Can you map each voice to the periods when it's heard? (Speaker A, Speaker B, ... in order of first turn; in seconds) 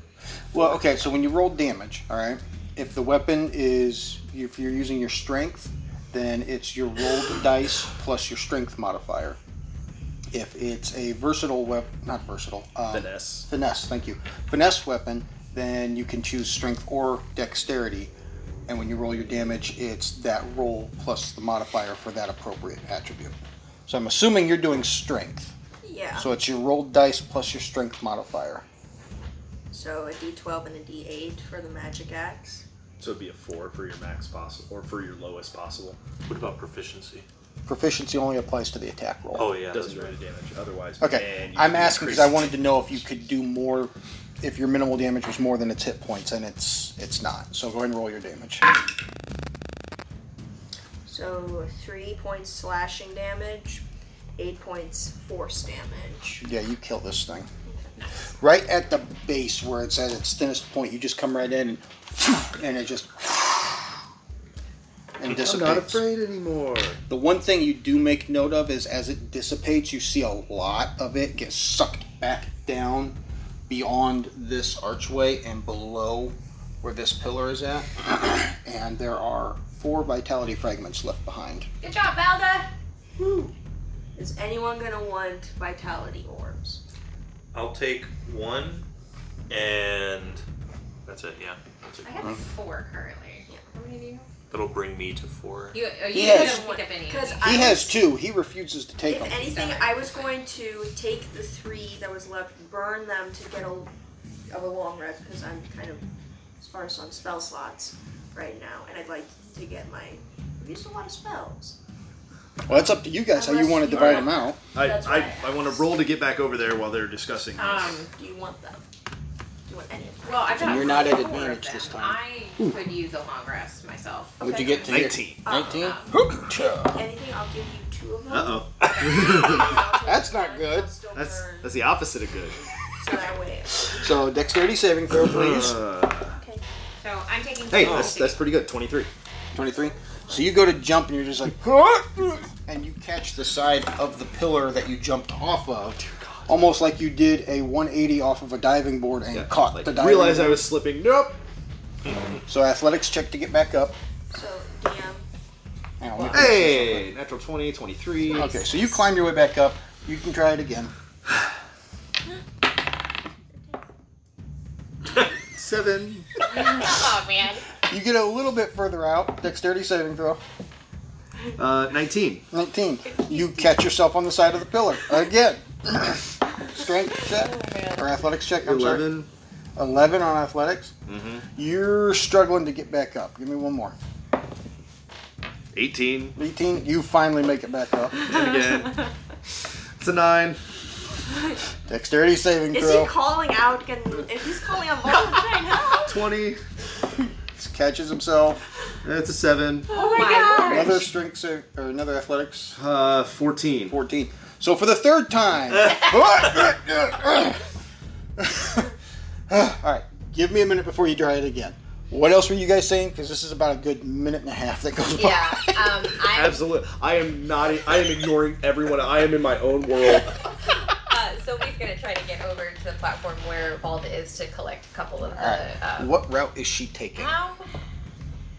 Speaker A: 0.5-9.4, 10.3-18.1, 18.7-23.4, 23.9-25.5, 26.2-28.6, 37.7-39.5, 41.0-48.6, 56.4-57.5, 58.4-64.0, 65.2-66.0, 67.1-73.2, 73.7-81.7, 96.1-96.8, 97.4-99.6, 112.7-114.6, 120.6-122.2, 124.4-127.0, 130.0-130.9, 134.0-135.8, 139.5-150.7, 152.5-154.0, 156.0-157.1, 158.3-160.9, 167.9-170.4, 172.5-179.1, 179.8-180.9, 181.6-183.9, 186.4-188.2, 191.9-193.1, 197.6-198.7, 200.7-202.8, 203.9-207.7, 208.4-208.9, 209.5-216.1, 225.3-227.3
Speaker B: 12.9-13.5, 33.0-36.0, 39.7-42.9, 65.3-67.0, 113.9-118.0, 124.8-125.4, 128.3-129.8, 131.1-132.6, 135.2-136.4, 137.7-139.1, 146.0-146.6, 149.3-151.4, 156.3-158.5, 165.2-166.3, 171.6-172.5, 178.6-179.3, 181.1-181.5, 185.7-186.4, 188.2-189.1, 190.0-190.6, 196.0-196.6, 199.0-199.9, 202.8-204.0, 216.3-220.4
Speaker C: 25.8-26.3, 29.7-32.6, 51.1-53.8, 54.4-56.4, 83.2-83.5, 84.2-86.8, 96.1-98.0, 99.1-103.9, 104.5-106.0, 106.6-111.8, 113.3-116.0, 118.1-118.8, 119.7-121.2, 124.4-124.7, 125.5-126.0, 126.9-131.8, 133.0-134.1, 136.4-136.6, 154.3-155.2, 192.7-196.2, 199.9-201.0
Speaker D: 36.3-37.3, 39.4-40.1, 87.5-88.9, 89.5-90.4, 91.1-92.2, 94.5-95.8
Speaker E: 81.8-82.7, 92.0-94.3, 95.7-97.6, 99.4-100.4, 117.6-118.1, 120.2-124.9, 125.7-126.1, 137.0-138.4, 166.5-167.7, 199.9-201.1, 215.1-216.6, 220.9-226.2, 227.2-227.7